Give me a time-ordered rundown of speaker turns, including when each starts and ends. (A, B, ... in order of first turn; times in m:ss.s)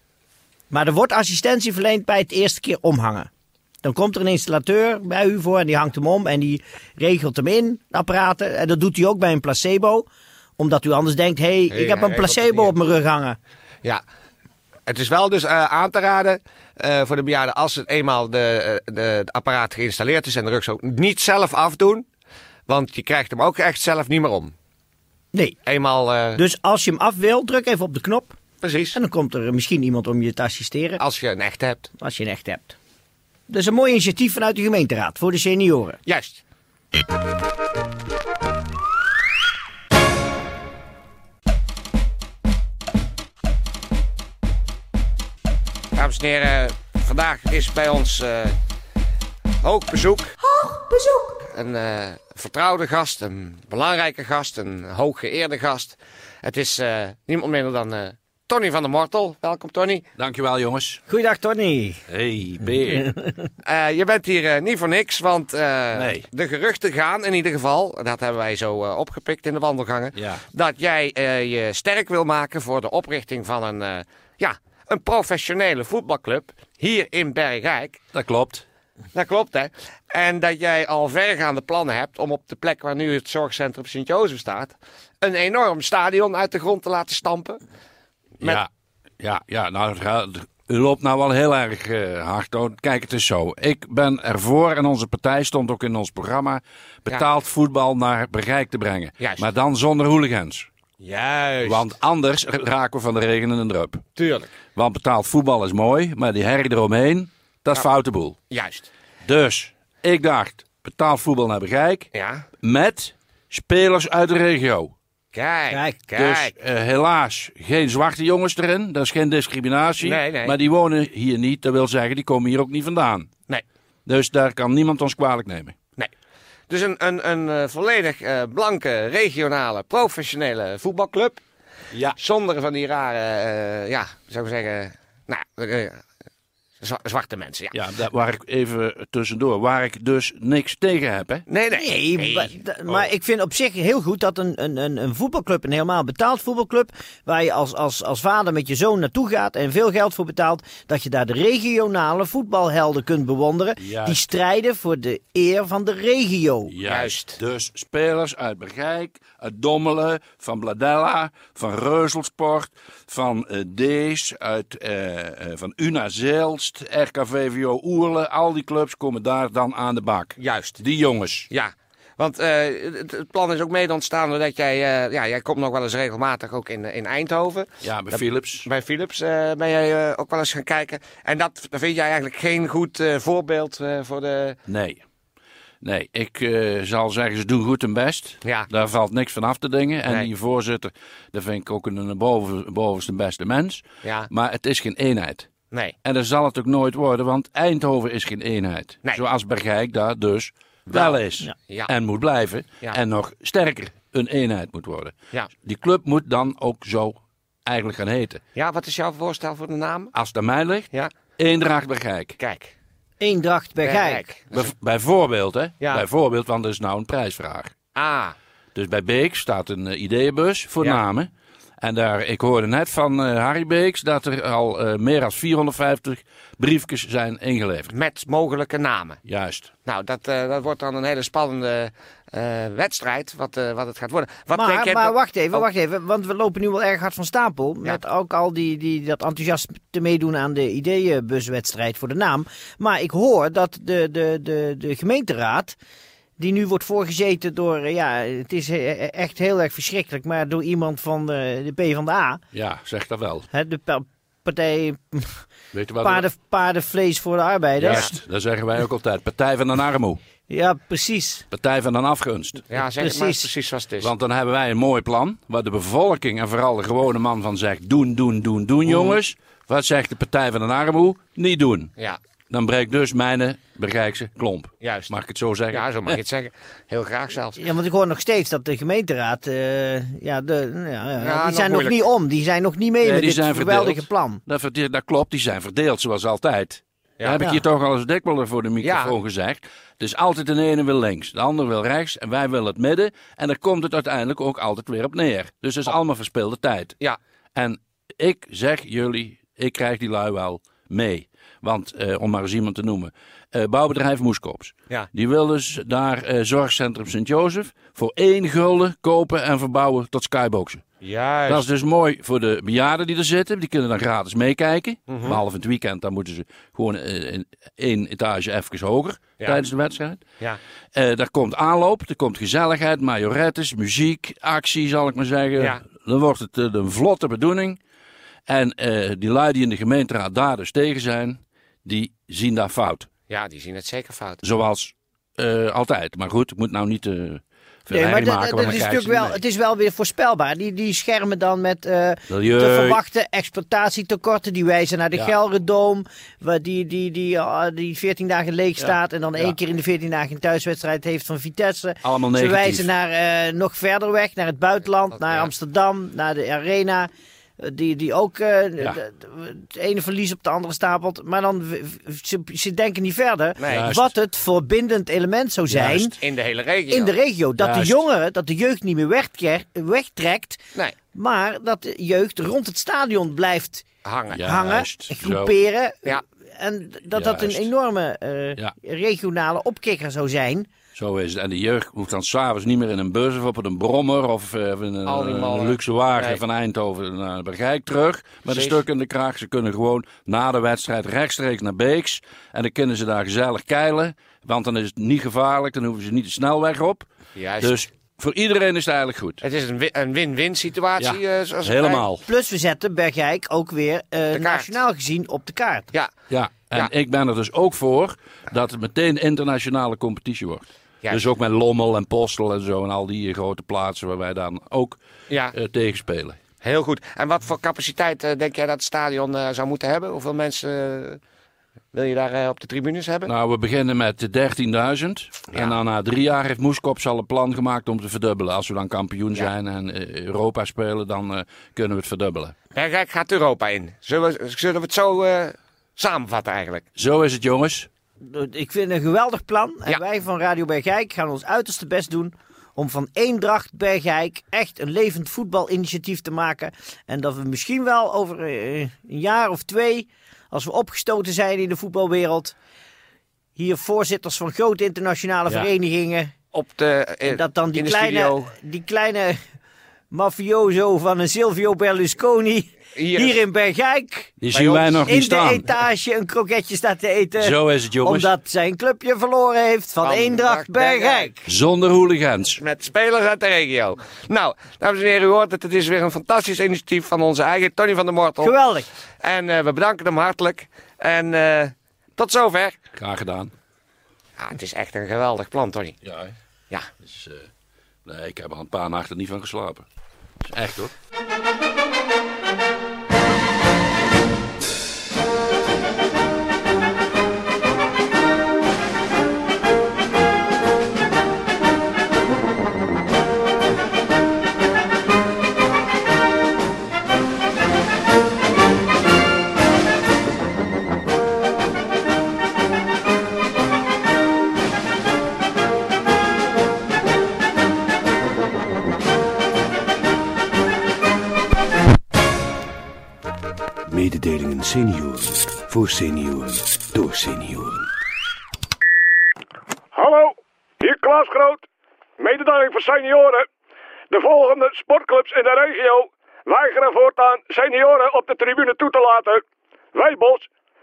0:00.7-0:03.3 A
0:03.8-0:10.1 A
0:10.6-0:13.4 A
0:11.7-0:12.7 B
0:14.8-0:22.0 B
0:22.7-0:24.5 B
0:25.6-0:26.4 B
0:26.4-0:28.4 A
0:28.6-0:29.0 B
0:28.9-0:31.0 A
0:31.0-0:31.9 B
0:32.0-0:32.8 A
0:33.5-0:36.0 A
0:36.0-0:36.4 B
0:46.0-0:48.6 B
0:49.6-0:50.4 B
0:51.5-1:00.1 B
1:00.2-1:01.0 C
1:01.1-1:02.0 A
1:02.1-1:03.1 C
1:03.6-1:18.0 B
1:05.9-1:06.2 C
1:10.2-1:10.4 C
1:18.1-1:18.6 C
1:19.1-1:27.6 B
1:28.4-1:28.7 C
1:29.2-1:40.7 C
1:39.2-1:39.4 B
1:41.0-1:41.9 B
1:41.6-1:44.0 C
1:44.2-1:44.5 B
1:44.7-1:48.4 C
1:48.5-1:48.9 B
1:49.2-1:52.1 C
1:52.1-1:52.4 B
1:52.6-1:54.9 C
1:55.3-1:56.5 B
1:55.7-1:56.0 A
1:56.2-2:03.3 C
2:00.0-2:00.6 B
2:04.0-2:05.8 C
2:06.7-2:11.4 B
2:12.1-2:16.0 B
2:16.8-2:17.8 B
2:17.7-2:21.4 C
2:21.5-2:22.5 B
2:21.7-2:36.7 A
2:33.8-2:34.2 C
2:36.7-2:51.5 C
2:36.8-2:37.4 B
2:50.4-2:50.8 B
2:51.5-3:04.6 B
2:57.8-2:58.7 C
3:04.7-3:05.0 C
3:05.8-3:15.5 C
3:08.4-3:08.7 B
3:14.0-3:14.3 B
3:16.0-3:28.4 C
3:20.9-3:21.1 B
3:28.5-3:30.1 B
3:30.1-3:32.4 C
3:32.4-3:32.7 B
3:33.2-3:34.2 A
3:33.8-3:34.7 B
3:34.5-3:37.7 C
3:37.9-3:38.3 B
3:38.7-3:41.3 C
3:41.8-3:47.9 C
3:47.9-3:49.2 B
3:49.2-3:49.7 C
3:49.8-3:55.7 B
3:54.5-4:05.8 A
4:06.4-4:12.4 A
4:12.5-4:13.4 C
4:13.5-4:15.4 A
4:15.7-4:16.3 C
4:16.0-4:18.1 A
4:17.8-4:20.2 C
4:20.5-4:21.4 A
4:21.5-4:22.6 C
4:22.7-4:24.1 B
4:23.0-4:23.5 A
4:24.0-4:31.9 C
4:28.9-4:29.2 B
4:32.5-4:36.2 C
4:34.8-4:35.1 B
4:35.7-4:37.6 B
4:37.6-4:44.4 A
4:41.2-4:42.0 B
4:43.0-4:57.0 C
4:48.8-4:49.1 B
4:57.5-5:10.8 C
5:11.0-5:11.7 B
5:11.4-5:20.2 C
5:15.1-5:15.4 B
5:20.9-5:27.8 C
5:28.5-5:33.1 C
5:33.3-5:34.4 B
5:34.4-5:39.4 C
5:37.9-6:06.1 A
5:42.3-5:43.0 C
5:48.8-5:49.5 C
5:52.0-5:52.9 C
5:55.1-5:55.5 B
6:03.6-6:03.9 B
6:03.7-6:04.1 C
6:05.7-6:06.0 C
6:06.0-6:07.1 B
6:06.9-6:10.6 A
6:07.6-6:08.0 C
6:11.1-6:13.8 A
6:14.0-6:14.4 B
6:14.3-6:15.5 C
6:14.4-6:20.7 A
6:17.2-6:17.7 C
6:20.9-6:39.4 C
6:25.0-6:26.4 B
6:28.5-6:28.8 B
6:37.3-6:37.8 B
6:39.4-6:42.1 B
6:41.0-6:42.2 C
6:42.2-6:45.9 A
6:44.3-6:44.8 B
6:46.3-6:55.0 C
6:55.5-6:56.4 C
6:56.6-7:01.2 B
7:01.9-7:03.3 B
7:03.2-7:12.5 C
7:12.7-7:16.8 B
7:17.0-7:17.9 C
7:18.2-7:32.5 A
7:33.6-7:36.3 A
7:36.5-7:38.5 B
7:37.2-7:39.4 A
7:40.1-7:44.3 A
7:42.9-7:43.4 B
7:44.4-7:45.6 C
7:44.5-7:45.0 B
7:45.0-7:51.3 A
7:47.4-7:48.3 C
7:50.0-7:51.4 B
7:51.4-7:52.6 C
7:52.5-7:58.5 B
7:58.4-7:58.9 A
7:59.2-8:02.8 B
8:03.0-8:03.5 C
8:04.4-8:06.0 B
8:06.0-8:06.3 C
8:07.0-8:07.5 C
8:08.0-8:09.8 C
8:10.5-8:10.9 C
8:44.0-8:47.8 D
8:49.9-8:51.6 E
8:52.2-8:53.4 E
8:54.1-8:59.4 E
8:59.9-9:00.5 E